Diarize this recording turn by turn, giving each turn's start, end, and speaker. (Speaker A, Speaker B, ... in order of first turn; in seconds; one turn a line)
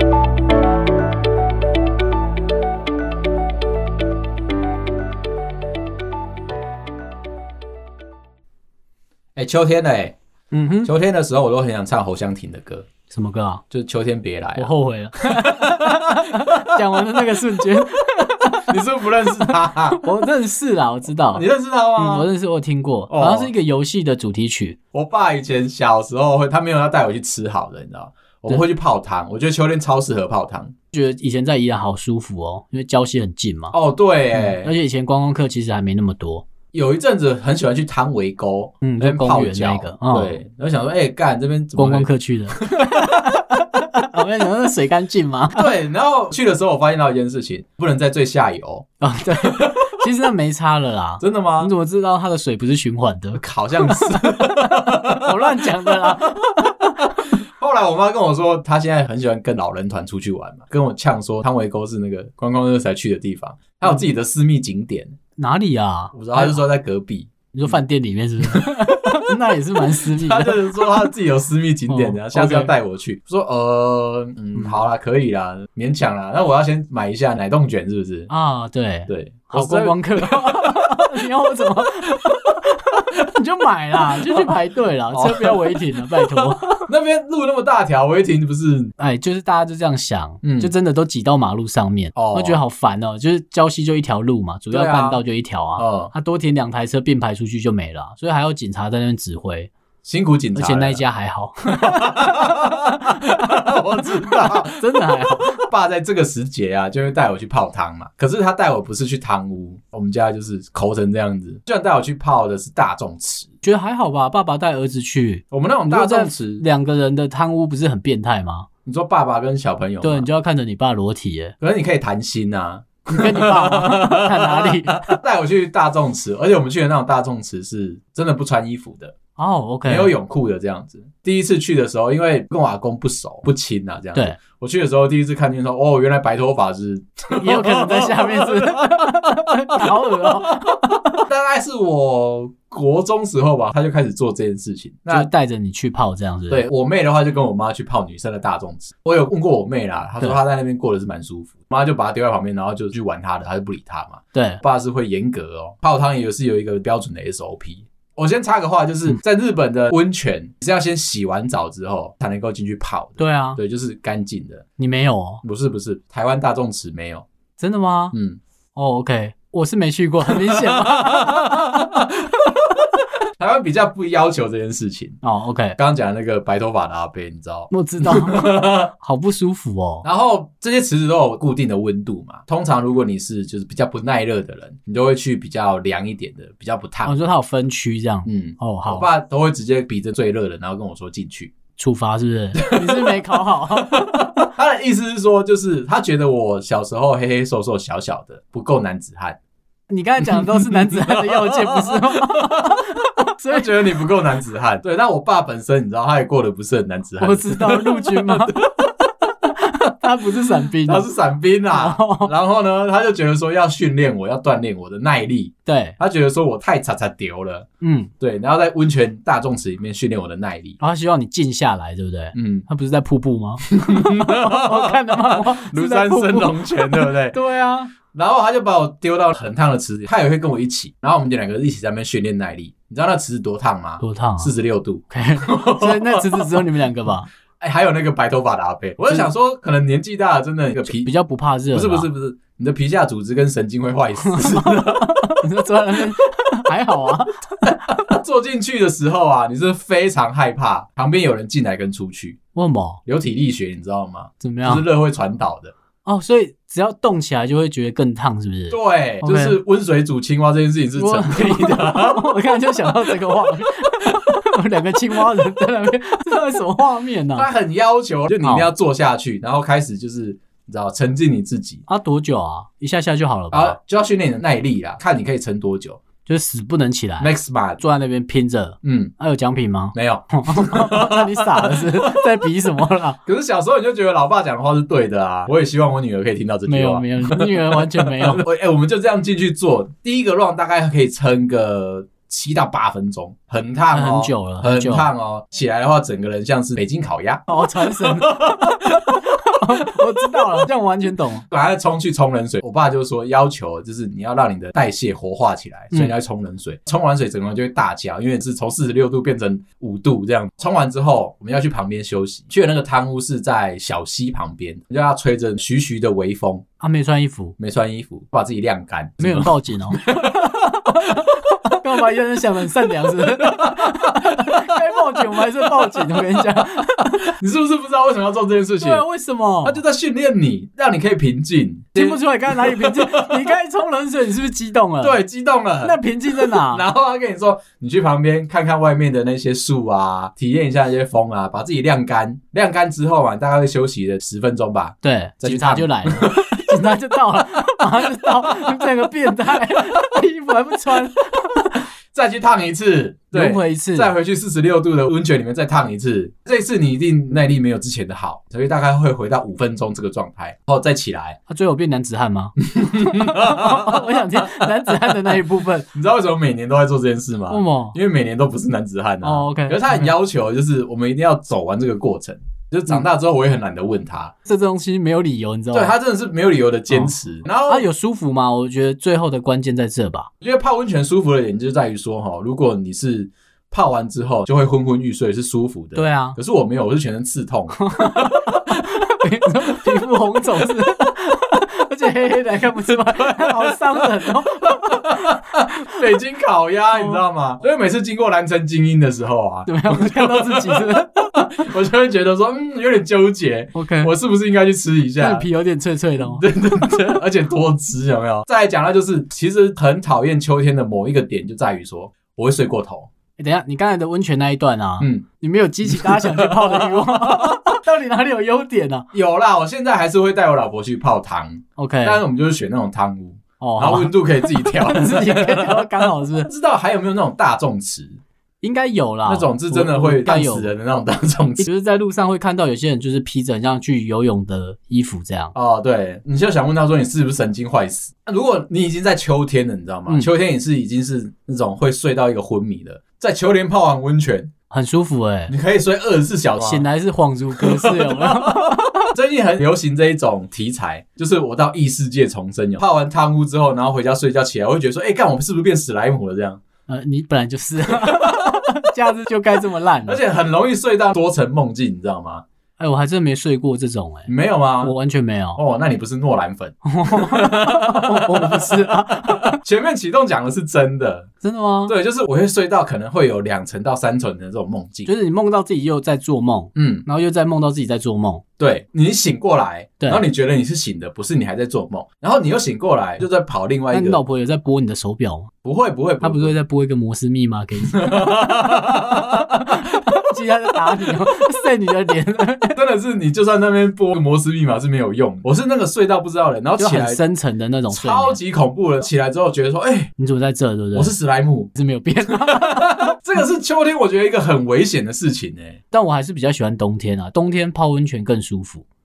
Speaker A: 9.4-10.1
Speaker B: 10.5-10.9
Speaker A: 10.8-12.9
Speaker B: 13.1-13.6
Speaker A: 13.7-17.6
Speaker B: 14.6-21.4
Speaker A: 18.7-20.1
Speaker A: 21.3-22.3
Speaker B: 21.9-24.8
Speaker A: 23.1-23.5
Speaker A: 24.9-30.7
Speaker B: 30.9-33.8
Speaker A: 33.7-34.7
Speaker B: 34.3-36.5
Speaker A: 36.7-43.3
Speaker B: 38.8-40.4
Speaker B: 41.8-45.7
Speaker A: 45.5-48.9
Speaker B: 49.0-57.1
Speaker A: 49.4-50.0
Speaker A: 51.2-51.7
Speaker A: 53.3-65.2
Speaker B: 65.4-66.6
Speaker A: 66.1-67.8
Speaker B: 67.5-71.1
Speaker A: 68.5-69.2
Speaker A: 70.0-78.3
Speaker B: 71.9-72.7
Speaker B: 74.5-74.8
Speaker B: 78.3-86.8
Speaker A: 79.1-81.0
Speaker A: 84.1-84.5
Speaker A: 85.1-88.9
Speaker B: 89.0-99.7
Speaker A: 90.4-90.7
Speaker A: 92.1-92.6
Speaker A: 94.7-95.2
Speaker A: 95.8-96.1
Speaker A: 100.0-101.0
Speaker B: 100.5-105.6
Speaker A: 101.7-113.5
Speaker B: 113.6-118.7
Speaker A: 115.5-116.6
Speaker A: 118.8-120.3
Speaker B: 120.0-121.5
Speaker A: 121.6-129.1
Speaker B: 123.1-125.1
Speaker B: 129.4-130.1
Speaker A: 129.8-145.3
Speaker B: 137.4-141.2
Speaker B: 145.1-146.6
Speaker A: 146.5-164.7
Speaker B: 154.3-154.6
Speaker B: 163.2-163.6
Speaker B: 164.8-165.4
Speaker A: 165.4-167.2
Speaker B: 167.6-168.1
Speaker A: 168.1-168.4
Speaker B: 168.8-171.7
Speaker A: 170.3-175.2
Speaker B: 175.2-175.8
Speaker A: 175.8-178.9
Speaker B: 177.7-180.1
Speaker A: 180.0-187.2
Speaker B: 187.1-189.1
Speaker A: 188.2-191.5
Speaker B: 191.8-194.4
Speaker A: 192.6-199.4
Speaker B: 199.9-204.1
Speaker A: 200.2-202.9
Speaker A: 203.5-209.0
Speaker B: 207.2-208.5
Speaker B: 209.5-211.1
Speaker A: 210.8-217.7
Speaker B: 211.7-212.3
Speaker B: 215.7-216.0
Speaker B: 217.8-218.1
Speaker A: 218.2-220.8
Speaker B: 220.8-227.9
Speaker A: 222.3-222.7
Speaker A: 223.7-227.4
Speaker A: 228.1-236.6
Speaker B: 234.0-234.5
Speaker B: 235.1-237.3
Speaker A: 237.6-241.1
Speaker B: 240.9-242.1
Speaker A: 241.7-245.4
Speaker B: 244.2-247.7
Speaker A: 247.6-252.4
Speaker B: 252.6-253.0
Speaker A: 253.1-255.7
Speaker B: 254.4-254.8
Speaker B: 256.1-259.6
Speaker A: 258.7-262.3
Speaker B: 260.9-267.5
Speaker A: 262.9-263.2
Speaker A: 267.4-271.9
Speaker B: 268.4-268.7
Speaker B: 271.9-273.8
Speaker A: 273.5-276.0
Speaker B: 276.2-283.2
Speaker A: 277.2-277.8
Speaker A: 278.8-279.1
Speaker A: 279.9-282.2
Speaker A: 283.2-300.6
Speaker B: 286.7-288.4
Speaker B: 293.9-295.1
Speaker B: 297.5-301.4
Speaker A: 301.5-316.6
Speaker B: 316.8-317.6
Speaker A: 317.6-322.0
Speaker B: 319.2-327.3
Speaker A: 322.6-326.6
Speaker A: 327.3-329.0
Speaker B: 328.8-329.8
Speaker A: 329.6-333.4
Speaker B: 331.9-335.2
Speaker A: 335.0-346.7
Speaker B: 335.8-336.8
Speaker B: 345.0-351.8
Speaker A: 348.1-349.1
Speaker A: 352.1-361.4
Speaker B: 353.3-354.1
Speaker B: 361.5-365.9
Speaker A: 362.6-365.2
Speaker A: 365.9-374.3
Speaker B: 367.5-368.0
Speaker B: 369.2-370.1
Speaker B: 374.4-375.9
Speaker A: 375.7-377.9
Speaker B: 376.9-377.1
Speaker B: 377.7-380.3
Speaker A: 380.4-390.7
Speaker B: 385.9-386.4
Speaker B: 387.8-396.1
Speaker A: 392.9-405.4
Speaker B: 396.9-397.2
Speaker B: 399.7-401.5
Speaker B: 403.8-404.1
Speaker B: 405.2-406.4
Speaker A: 406.2-413.1
Speaker B: 413.4-419.1
Speaker A: 415.0-415.2
Speaker A: 415.9-417.6
Speaker A: 419.1-428.2
Speaker B: 421.8-422.2
Speaker B: 423.6-426.5
Speaker B: 428.6-430.7
Speaker A: 429.2-431.7
Speaker B: 431.6-435.5
Speaker A: 435.5-444.5
Speaker B: 444.7-445.5
Speaker A: 445.5-446.9
Speaker B: 446.6-449.1
Speaker A: 447.6-456.6
Speaker B: 456.9-460.2
Speaker A: 457.9-458.6
Speaker A: 460.1-462.4
Speaker B: 462.8-464.3
Speaker A: 464.2-464.9
Speaker B: 464.8-465.6
Speaker A: 465.6-471.3
Speaker B: 466.8-469.6
Speaker B: 471.4-471.9
Speaker A: 471.9-475.1
Speaker B: 475.1-478.4
Speaker A: 476.7-477.1
Speaker A: 478.6-484.2
Speaker B: 483.9-485.5
Speaker A: 485.6-486.6
Speaker B: 486.2-492.8
Speaker A: 487.8-490.1
Speaker A: 492.7-497.2
Speaker B: 496.8-498.4
Speaker A: 497.9-500.1
Speaker B: 500.2-501.1
Speaker A: 500.9-501.7
Speaker B: 501.7-503.1
Speaker A: 502.3-505.8
Speaker B: 505.9-508.8